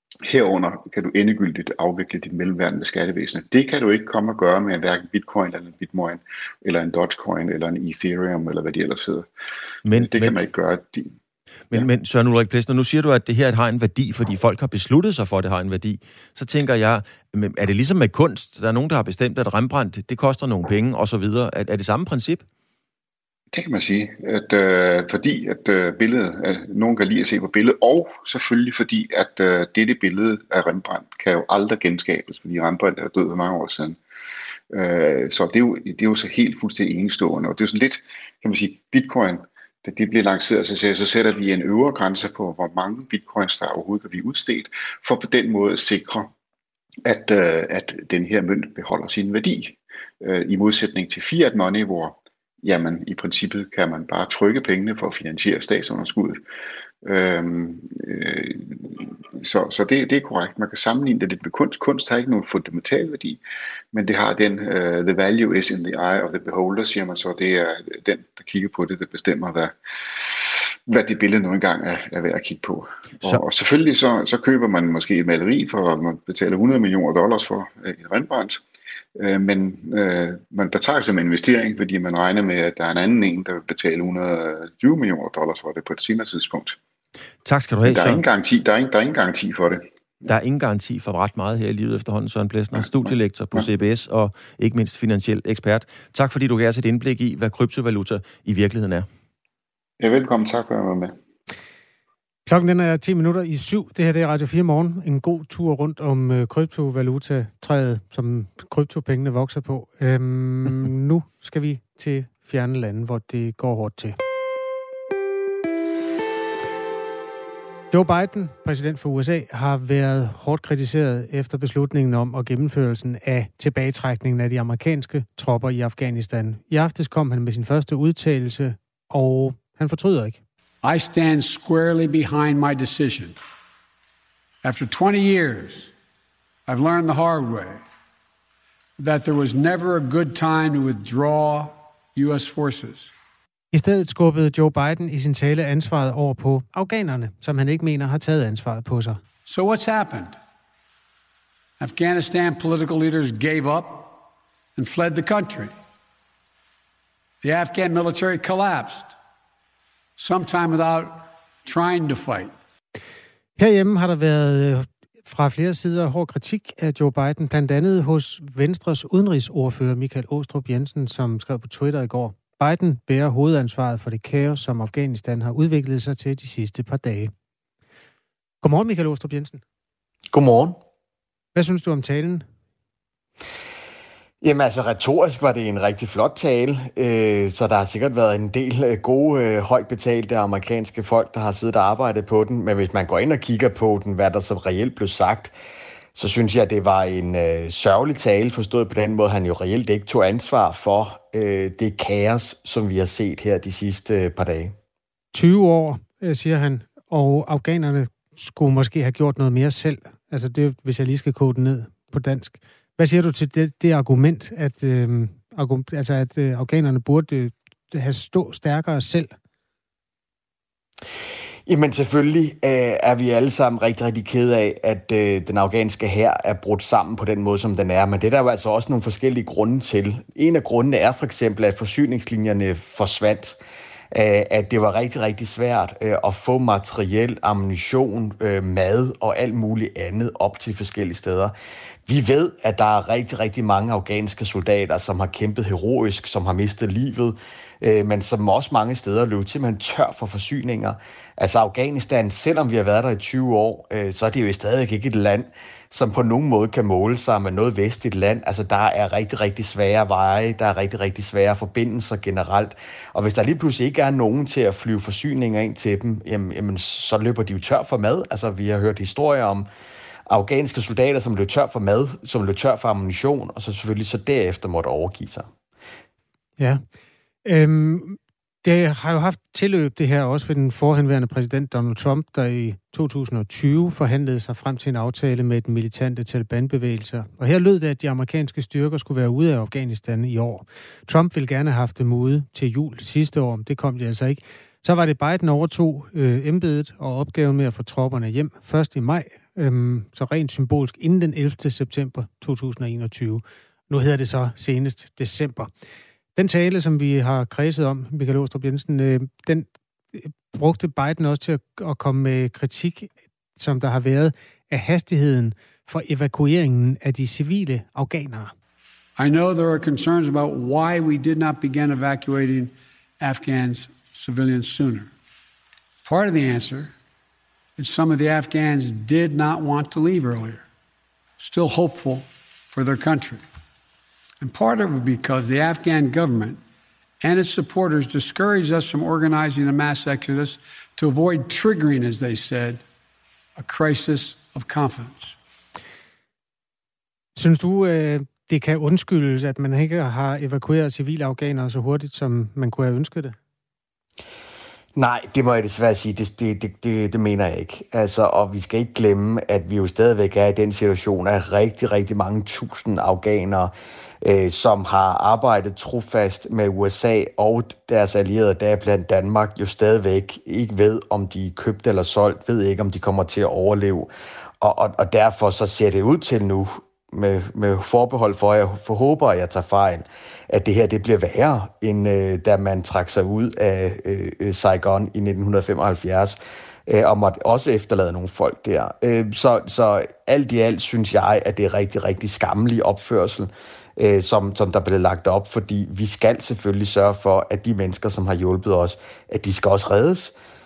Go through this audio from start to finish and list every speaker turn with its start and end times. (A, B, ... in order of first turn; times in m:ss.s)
0:00.3-0:09.2 A
0:09.8-0:10.4 B
0:09.9-0:11.0 A
0:11.7-0:22.4 B
0:23.5-0:34.0 A
0:34.7-0:46.3 A
0:47.0-0:56.4 A
0:57.1-0:58.5 A
0:59.4-1:03.4 A
1:03.9-1:09.7 A
1:10.9-1:18.6 A
1:19.2-1:26.8 A
1:27.4-1:28.2 B
1:27.8-1:29.8 A
1:30.3-1:39.1 B
1:40.0-1:41.1 A
1:42.5-1:54.2 C
1:57.9-2:10.4 C
2:10.8-2:13.4 D
2:14.6-2:15.9 D
2:16.7-2:17.8 D
2:19.0-2:23.1 D
2:23.7-2:29.2 C
2:29.4-2:30.4 D
2:31.8-2:34.1 D
2:34.8-2:35.7 D
2:37.4-2:39.1 D
2:40.2-2:42.5 D
2:43.6-2:57.3 C
2:58.6-2:59.6 C
3:00.3-3:00.8 E
3:01.5-3:02.4 C
3:04.4-3:15.5 E
3:16.1-3:24.7 E
3:25.3-3:39.3 C
3:41.7-3:53.6 E
3:54.1-4:01.5 E
4:02.0-4:29.6 E
4:30.3-4:35.5 E
4:37.4-5:05.7 C
5:06.4-5:18.5 C
5:19.2-5:25.1 D
5:26.0-5:26.9 D
5:27.8-5:30.6 D
5:31.4-5:33.4 D
5:34.4-5:36.6 D
5:37.2-5:42.8 D
5:43.6-5:45.4 D
5:47.4-5:53.4 C
5:55.0-6:40.3 E